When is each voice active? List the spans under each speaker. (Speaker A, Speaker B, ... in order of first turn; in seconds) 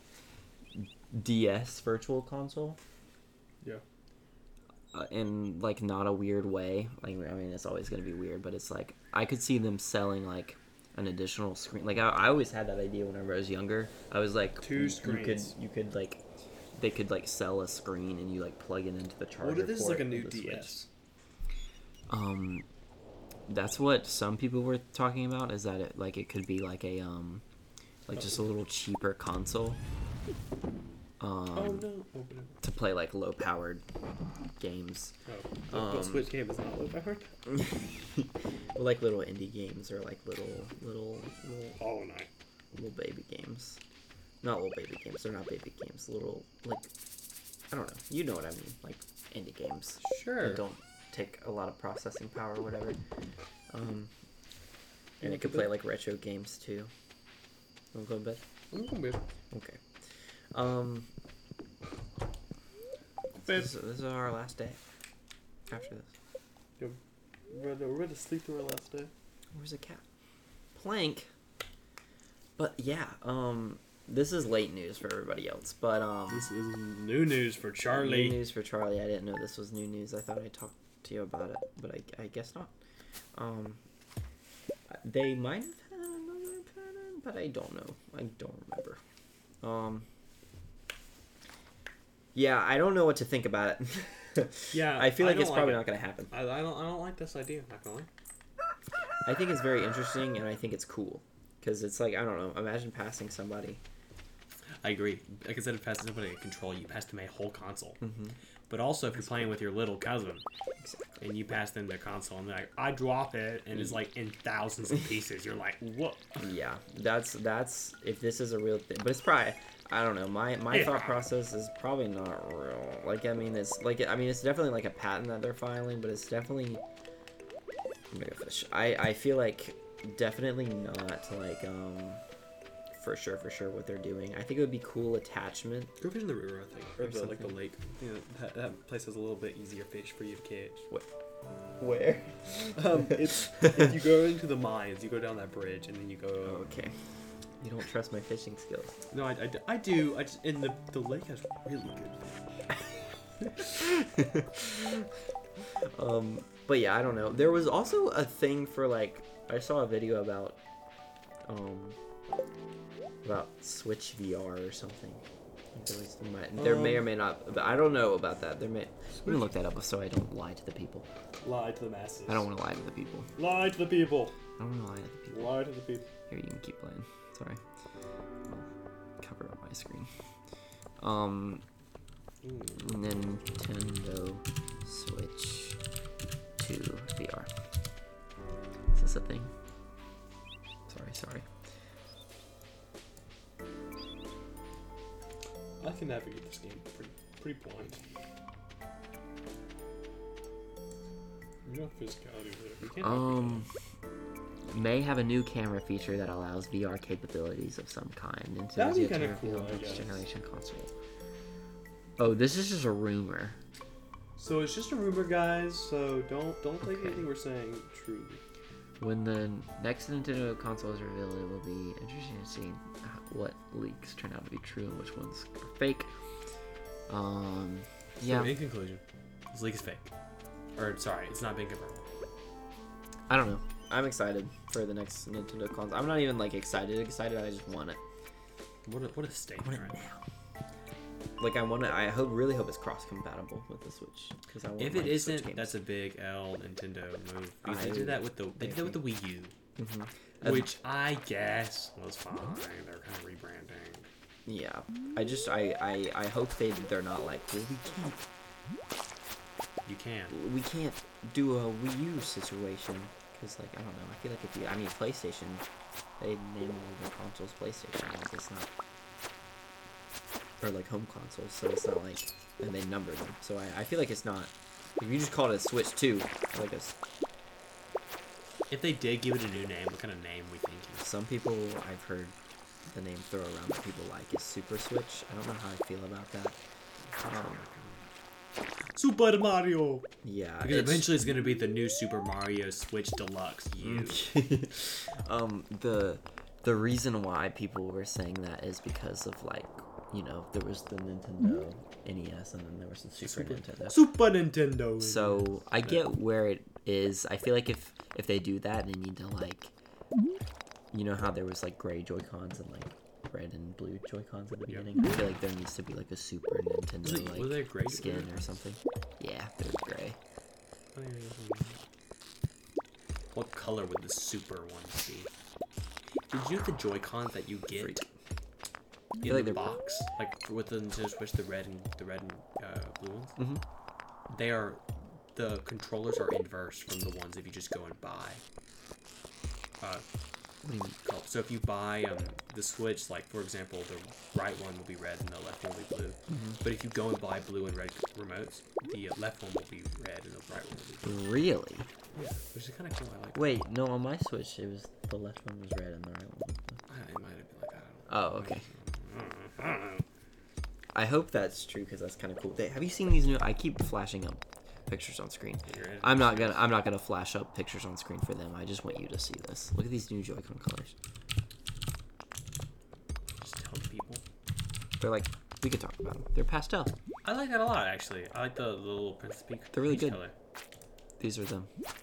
Speaker A: 0.7-2.8, 4.9-16.2, 16.8-20.8, 22.1-22.6, 23.5-27.4, 28.1-29.8, 31.2-31.9, 32.6-33.8, 34.6-35.1, 35.7-36.3, 37.5-41.8, 42.7-43.8, 44.4-46.9, 47.7-53.0, 53.7-54.1, 55.2-56.9, 57.9-58.4, 59.5-59.8, 60.5-61.1, 63.4-64.8, 65.7-66.1, 69.5-70.0, 70.7-71.3, 72.6-76.5, 77.9-82.7, 83.3-83.8, 84.9-89.0, 89.6-90.1, 92.3-96.3, 99.2-103.8, 108.0-108.3, 109.1-109.5, 110.8-111.3, 116.4-126.8, 128.1-132.2, 132.9-135.9, 137.0-137.6, 141.8-143.9, 146.4-147.0, 147.6-148.9, 153.6-155.1, 155.8-160.6, 161.5-162.0, 163.2-165.2, 165.7-171.1, 172.3-173.3, 174.6-175.7, 176.3-177.6, 179.2-180.1, 181.0-181.6, 182.7-185.8, 186.6-187.5, 188.9-189.5, 190.9-191.4, 203.0-203.7, 204.6-210.9, 212.2-213.6, 216.8-217.3, 219.0-226.1, 227.1-228.6, 233.3-238.0, 239.6-240.2, 241.4-245.8, 247.6-249.0, 249.8-250.7, 254.4-258.2, 260.3-265.6, 266.2-268.7, 270.6-276.9, 281.0-282.3, 282.9-286.6, 287.3-287.6, 290.2-291.1, 293.8-304.0, 305.0-309.7, 310.9-320.2, 327.8-328.1, 329.2-329.6, 333.4-333.6, 340.6-340.9, 346.3-346.6, 351.0-351.9, 353.3-356.8, 358.1-358.6, 360.9-370.9, 375.0-376.9, 379.7-380.2, 381.2-381.7
Speaker B: 14.6-15.5, 19.4-20.9, 28.1-28.4, 31.5-32.6, 35.2-37.3, 41.8-42.3, 50.0-50.6, 55.2-55.7, 58.7-59.2, 63.4-63.7, 67.5-69.1, 76.3-78.4, 94.7-98.1, 104.8-108.0, 108.7-110.4, 111.2-116.4, 120.7-121.2, 136.0-140.9, 142.7-146.7, 149.1-152.4, 166.6-167.1, 169.1-169.5, 171.4-172.5, 173.3-174.3, 175.3-176.1, 182.4-182.9, 195.8-198.0, 201.6-203.7, 208.8-210.2, 214.4-218.4, 228.2-230.1, 230.8-232.0, 238.8-240.0, 244.8-249.5, 250.4-254.1, 259.8-260.3, 278.7-281.0, 287.0-288.1, 288.9-290.1, 290.6-294.2, 303.2-306.0, 317.0-318.5, 320.9-321.8, 323.3-325.3, 326.3-328.0, 329.2-333.4, 334.3-334.8, 335.3-338.4, 341.0-351.2, 352.1-353.6, 356.9-360.0, 365.6-366.7, 373.4-374.2, 377.2-380.3